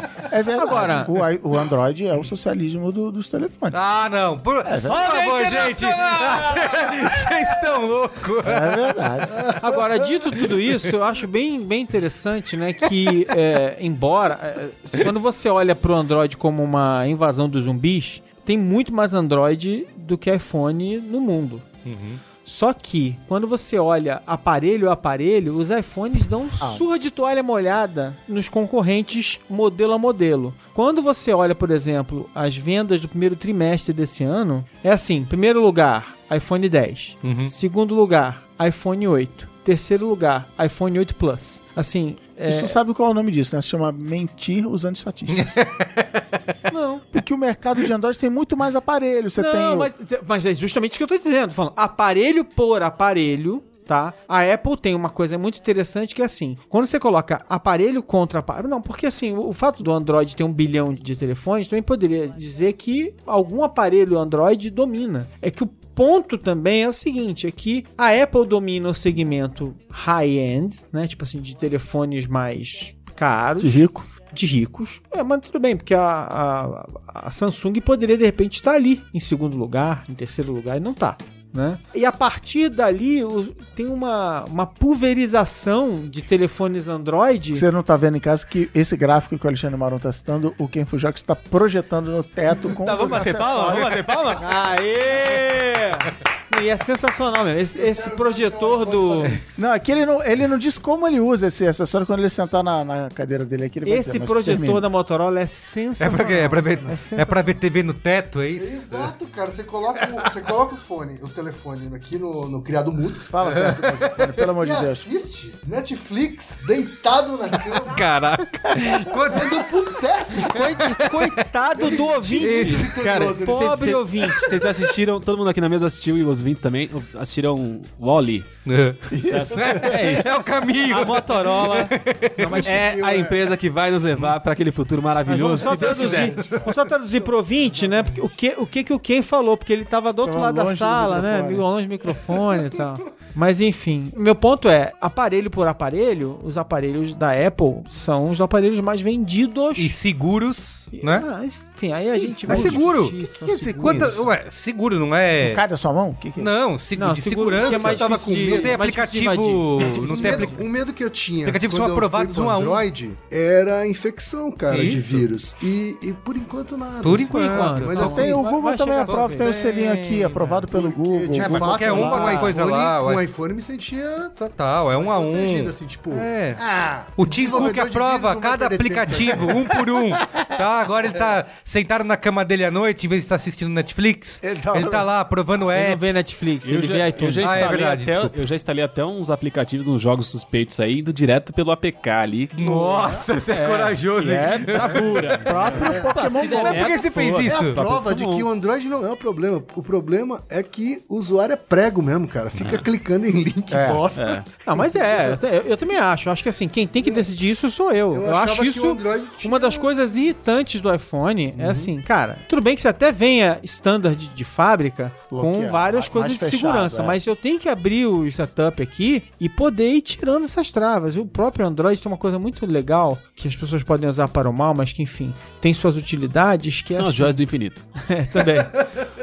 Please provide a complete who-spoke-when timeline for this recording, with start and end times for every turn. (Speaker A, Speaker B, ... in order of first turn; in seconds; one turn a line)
Speaker A: 0.3-3.8
Speaker B: 0.5-1.1
Speaker C: 3.7-8.9
Speaker A: 4.6-5.0
Speaker D: 4.8-7.0
Speaker A: 8.4-9.5
Speaker B: 9.6-21.7
Speaker C: 21.8-22.2
Speaker B: 22.4-42.8
Speaker A: 26.6-26.9
Speaker C: 37.2-37.5
Speaker A: 42.5-45.6
Speaker C: 45.3-46.2
Speaker B: 46.7-47.0
Speaker A: 47.1-49.9
Speaker B: 49.4-87.6
Speaker A: 73.6-74.1
Speaker A: 87.5-94.0
Speaker D: 92.8-94.5
Speaker B: 94.4-99.4
Speaker E: 97.7-99.6
Speaker A: 99.5-104.8
Speaker B: 103.8-107.4
Speaker C: 106.0-109.1
Speaker E: 106.5-106.9
Speaker E: 108.6-118.0
Speaker A: 113.2-115.1
Speaker C: 117.7-121.4
Speaker E: 119.3-121.0
Speaker B: 120.4-124.5
Speaker E: 121.7-124.1
Speaker C: 122.4-123.0
Speaker D: 122.9-128.5
Speaker C: 128.7-132.7
Speaker A: 129.1-130.1
Speaker D: 129.2-130.3
Speaker D: 130.8-131.9
Speaker B: 132.4-132.9
Speaker E: 132.4-133.5
Speaker D: 132.6-136.4
Speaker B: 135.3-149.9
Speaker E: 135.7-136.8
Speaker A: 140.2-141.6
Speaker C: 149.8-151.2
Speaker B: 150.9-154.2
Speaker A: 152.0-154.3
Speaker E: 152.5-152.8
Speaker C: 152.5-153.2
Speaker C: 153.8-155.6
Speaker A: 155.4-156.5
Speaker C: 156.4-160.6
Speaker B: 156.9-160.6
Speaker E: 157.5-158.9
Speaker E: 159.8-168.4
Speaker C: 161.4-162.9
Speaker C: 164.7-165.3
Speaker C: 167.0-168.3
Speaker B: 167.3-169.5
Speaker A: 167.9-172.5
Speaker C: 169.0-170.6
Speaker E: 170.7-174.4
Speaker C: 171.3-173.2
Speaker C: 174.4-176.6
Speaker E: 174.9-179.8
Speaker C: 177.2-186.0
Speaker A: 184.4-185.1
Speaker B: 185.7-187.7
Speaker D: 186.6-192.7
Speaker C: 187.4-188.4
Speaker C: 192.6-195.6
Speaker D: 193.5-198.5
Speaker A: 195.4-196.9
Speaker B: 195.6-196.3
Speaker C: 196.4-197.8
Speaker E: 197.4-205.4
Speaker A: 203.7-204.1
Speaker D: 204.1-204.4
Speaker B: 204.6-227.4
Speaker E: 207.0-207.3
Speaker E: 208.1-209.9
Speaker E: 211.5-211.9
Speaker A: 215.3-217.2
Speaker D: 226.9-227.8
Speaker B: 228.0-228.9